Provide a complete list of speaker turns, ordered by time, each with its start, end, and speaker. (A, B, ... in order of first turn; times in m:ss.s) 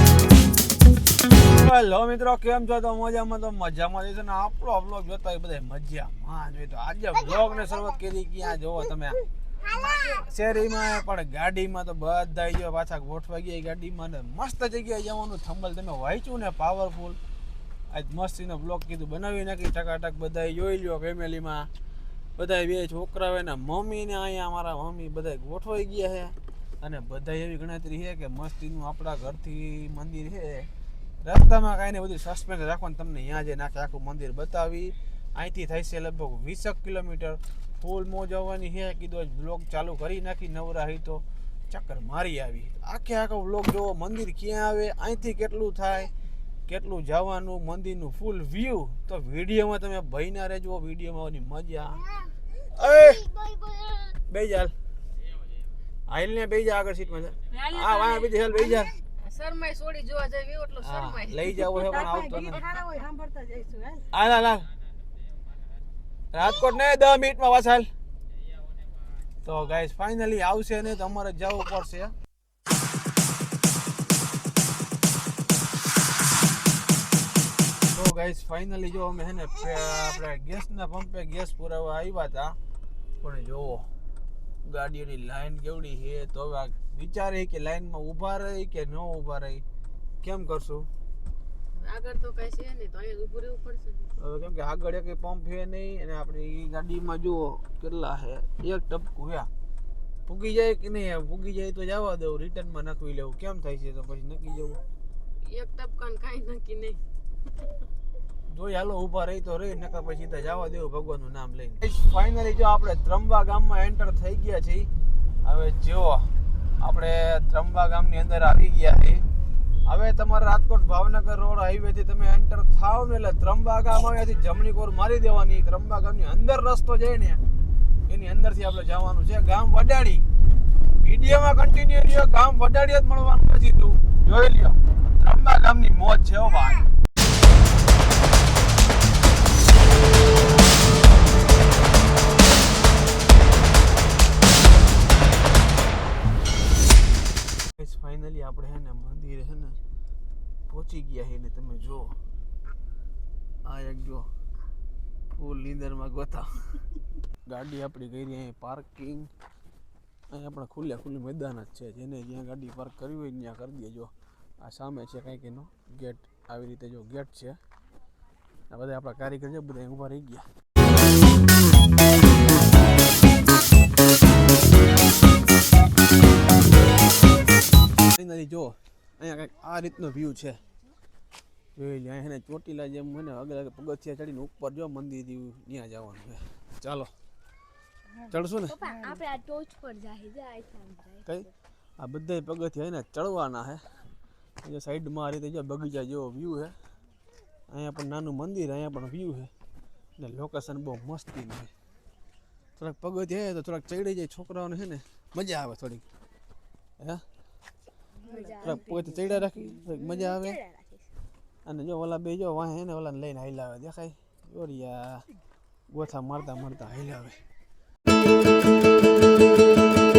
0:01.4-0:09.2 A
0:07.3-0:07.9 B
0:09.6-0:10.3 B
0:10.2-0:17.2 A
0:17.9-0:21.7 A
0:22.4-0:30.7 A
0:31.2-0:46.1 A
0:46.7-0:52.0 A
0:52.8-0:53.3 A
0:52.8-0:54.1 B
0:54.3-0:54.7 A
0:56.1-0:59.0 A
0:57.5-0:58.3 C
0:59.3-1:04.0 C
1:00.8-1:02.7 A
1:04.1-1:04.7 A
1:06.3-1:07.9 A
1:09.4-1:12.2 A
1:17.9-1:22.6 A
1:23.2-1:23.9 A
1:24.6-1:29.6 A
1:30.2-1:30.9 A
1:31.8-1:34.1 C
1:34.2-1:39.5 A
1:40.3-1:44.8 A
1:45.4-1:47.0 C
1:48.5-1:54.9 A
1:55.4-1:59.2 A
1:59.9-2:07.4 A
2:08.1-2:10.2 A
2:11.0-2:16.9 A
2:27.8-2:29.8 A
2:30.7-2:32.2 A
2:33.6-2:34.3 A
2:35.4-2:36.8 A
2:37.5-2:39.3 A
2:40.3-2:47.6 A
2:48.7-2:50.5 A
2:58.1-3:00.6 A
3:01.8-3:07.1 A
3:08.3-3:08.8 A
3:08.7-3:11.2 B
3:11.2-3:13.8 A
3:14.6-3:16.8 A
3:17.7-3:19.5 A
3:20.2-3:21.7 A
3:22.8-3:26.0 A
3:28.3-3:29.1 B
3:28.3-3:28.7 C
3:28.6-3:30.6 A
3:29.8-3:31.1 B
3:31.6-3:35.3 A
3:35.9-3:37.4 A